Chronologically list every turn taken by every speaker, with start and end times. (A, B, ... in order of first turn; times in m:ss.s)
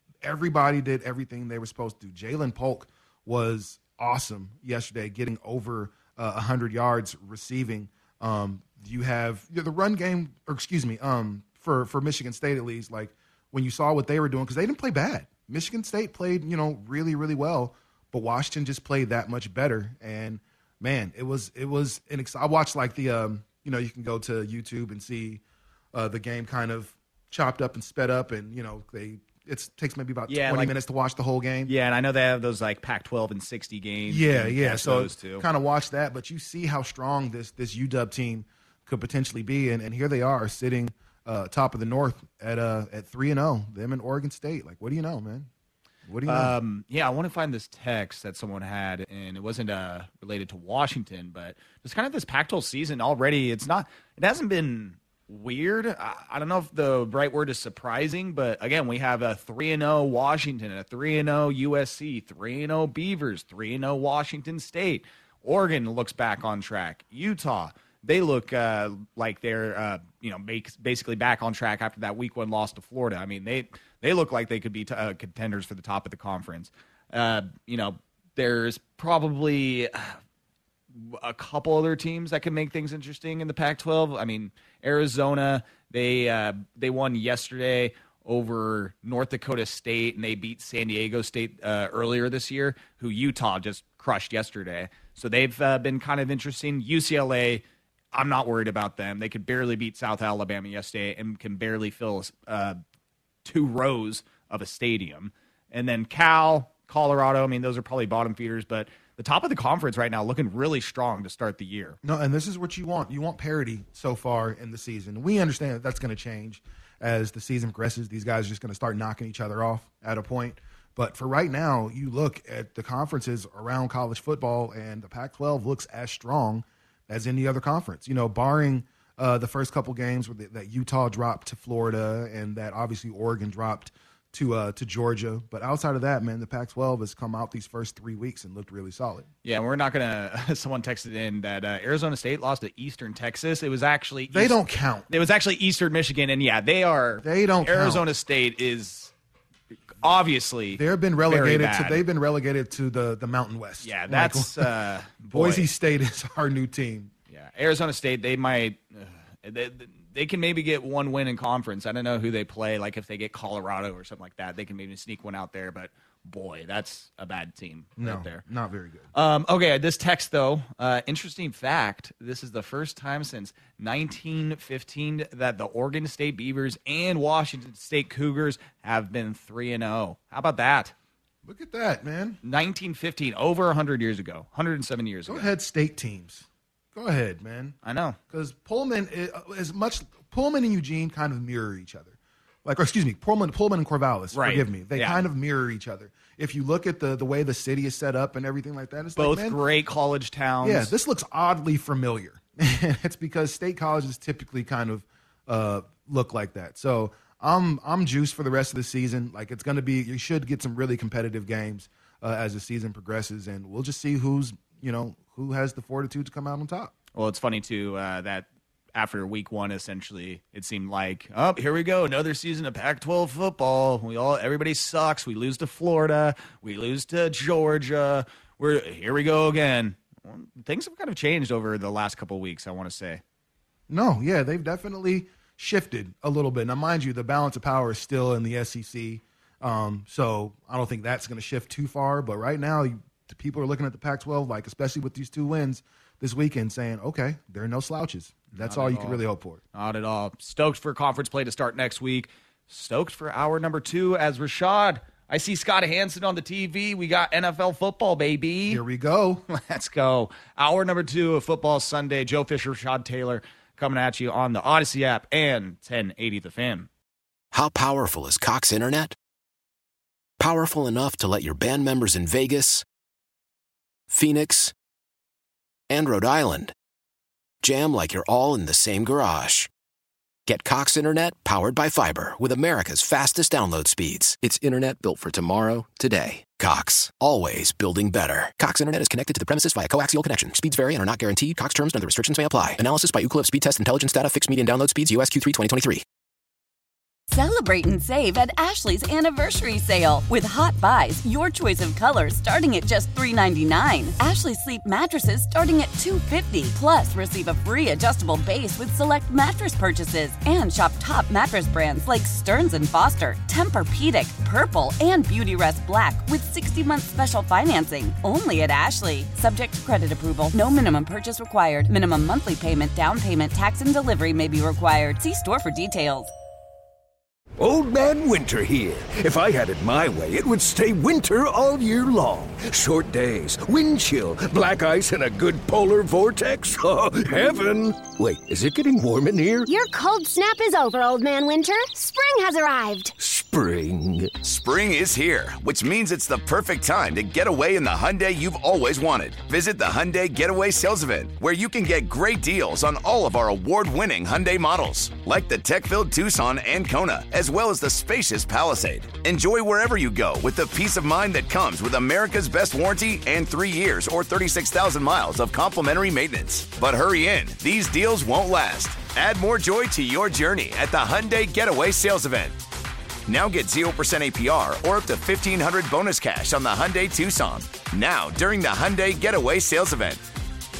0:00.2-0:25.4 A
0:25.9-0:31.7 A
0:30.3-0:30.7 B
0:31.6-0:35.4 B
0:34.1-0:45.5 A
0:46.1-0:46.5 A
0:46.2-1:20.2 B
1:20.9-1:42.8 B
1:43.4-1:52.0 B
1:52.0-2:19.3 A
2:19.4-2:29.1 B
2:24.3-2:25.1 A
2:27.2-2:28.0 A
2:30.0-2:32.0 B
2:30.7-2:34.7 A
2:33.8-2:35.7 B
2:35.2-2:37.1 A
2:37.3-2:48.4 B
2:48.0-2:49.1 A
2:49.1-3:00.9 B
3:01.4-3:02.4 A
3:02.4-3:05.5 B
3:05.2-3:07.8 A
3:07.8-3:08.2 B
3:08.3-3:19.6 A
3:14.3-3:15.3 B
3:19.2-3:20.9 B
3:20.6-3:36.9 A
3:37.1-3:53.2 B
3:53.9-4:09.6 A
4:08.5-4:09.2 B
4:09.7-4:18.8 B
4:18.7-4:19.4 A
4:19.5-4:26.9 B
4:27.5-4:29.2 C
4:30.4-4:32.8 C
4:34.1-4:34.7 C
4:35.9-4:36.7 C
4:37.6-4:39.7 C
4:40.4-4:56.0 C
4:57.3-5:26.3 D
5:27.6-5:39.7 E
5:39.7-5:43.1 F
5:43.2-5:44.4 E
5:44.4-6:12.6 G
6:13.2-6:20.2 G